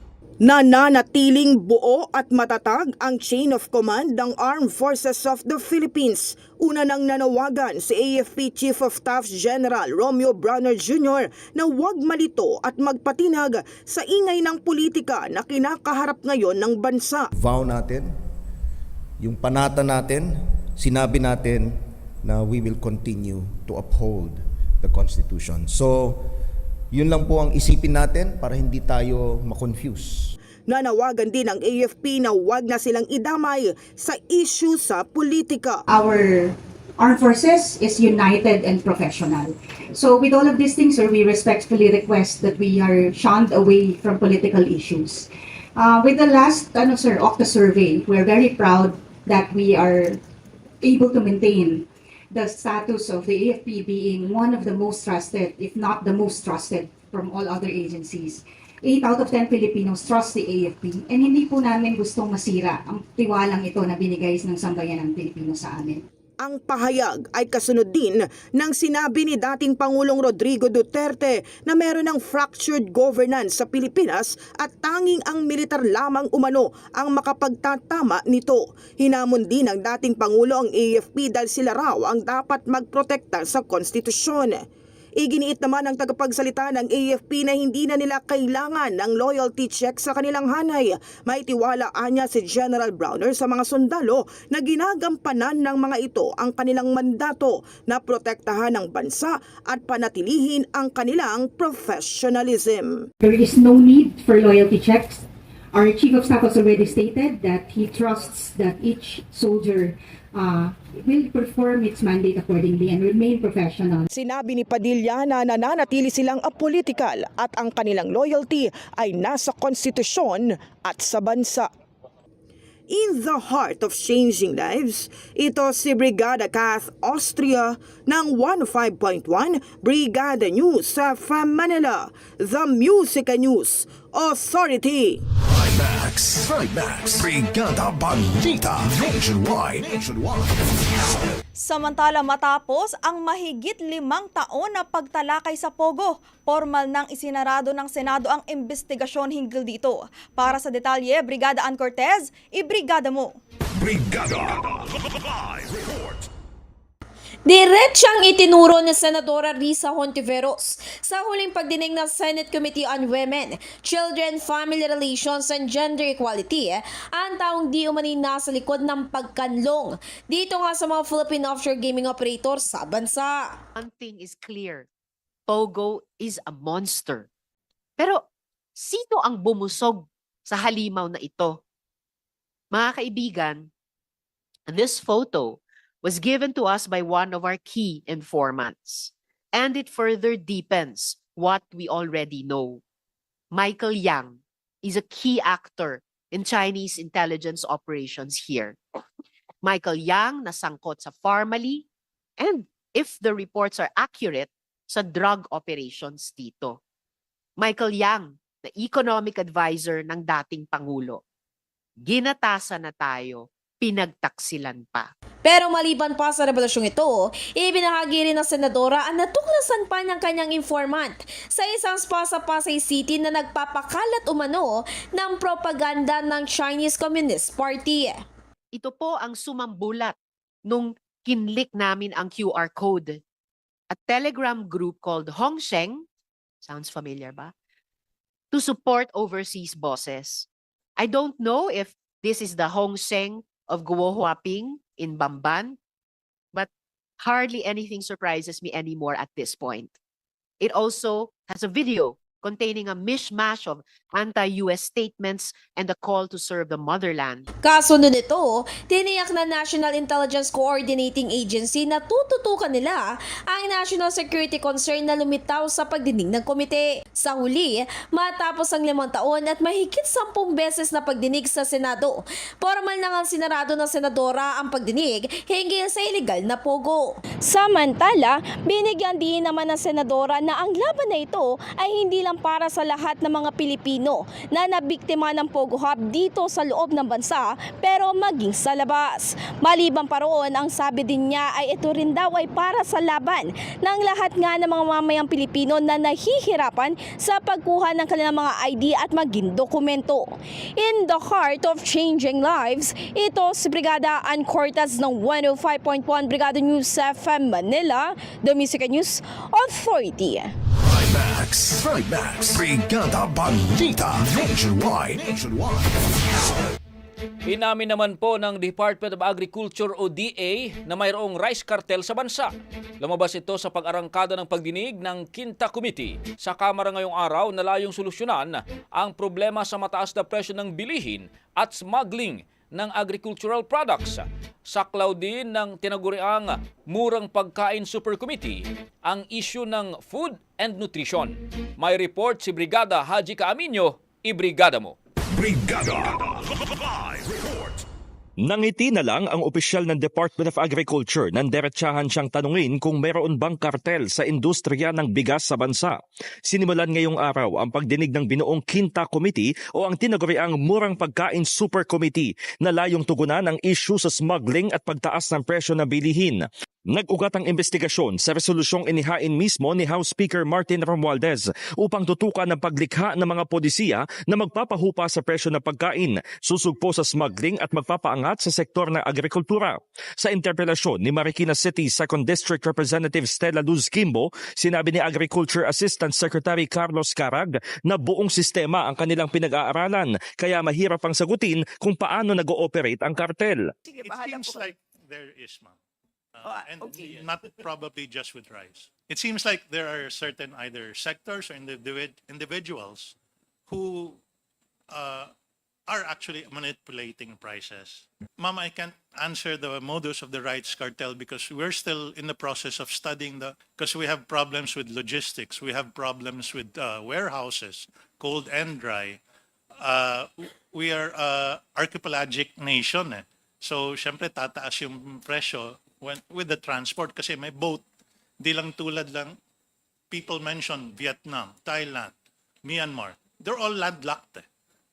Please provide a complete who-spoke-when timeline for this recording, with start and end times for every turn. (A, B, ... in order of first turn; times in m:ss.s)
0:00.4-0:17.3 A
0:17.4-0:18.1 B
0:19.2-0:21.7 B
0:22.2-0:26.2 B
0:26.9-0:30.4 B
0:30.7-0:35.8 A
0:35.9-0:50.2 C
0:50.8-1:06.0 C
1:06.4-1:24.6 A
1:25.2-1:43.0 A
1:43.2-1:54.1 C
1:54.1-2:01.7 A
2:02.9-2:15.2 A
2:15.4-2:20.6 D
2:21.6-2:33.4 E
2:33.8-2:36.3 D
2:37.5-2:53.5 F
2:53.8-2:54.9 G
2:55.5-2:57.3 G
2:58.8-3:01.6 G
3:02.7-3:03.7 G
3:04.7-3:12.8 G
3:13.5-3:18.8 G
3:19.6-3:21.8 G
3:22.4-3:26.8 G
3:27.6-3:31.2 G
3:32.0-3:35.1 G
3:35.4-3:48.2 F
3:48.7-3:53.2 G
3:53.9-3:56.0 G
3:56.6-3:57.5 G
3:58.5-4:00.5 G
4:01.0-4:05.8 G
4:06.5-4:09.9 G
4:10.6-4:17.5 G
4:17.6-5:10.6 F
5:10.8-5:16.1 D
5:17.5-5:45.0 H
5:45.3-5:47.8 D
5:48.4-5:56.0 I
5:56.5-6:33.7 I
6:33.9-6:35.8 J
6:36.4-6:43.2 J
6:43.7-6:44.2 J
6:44.9-6:45.3 J
6:45.9-6:59.2 J
6:59.8-7:07.8 J
7:08.4-7:09.4 J
7:10.1-7:12.1 J
7:12.6-7:14.4 J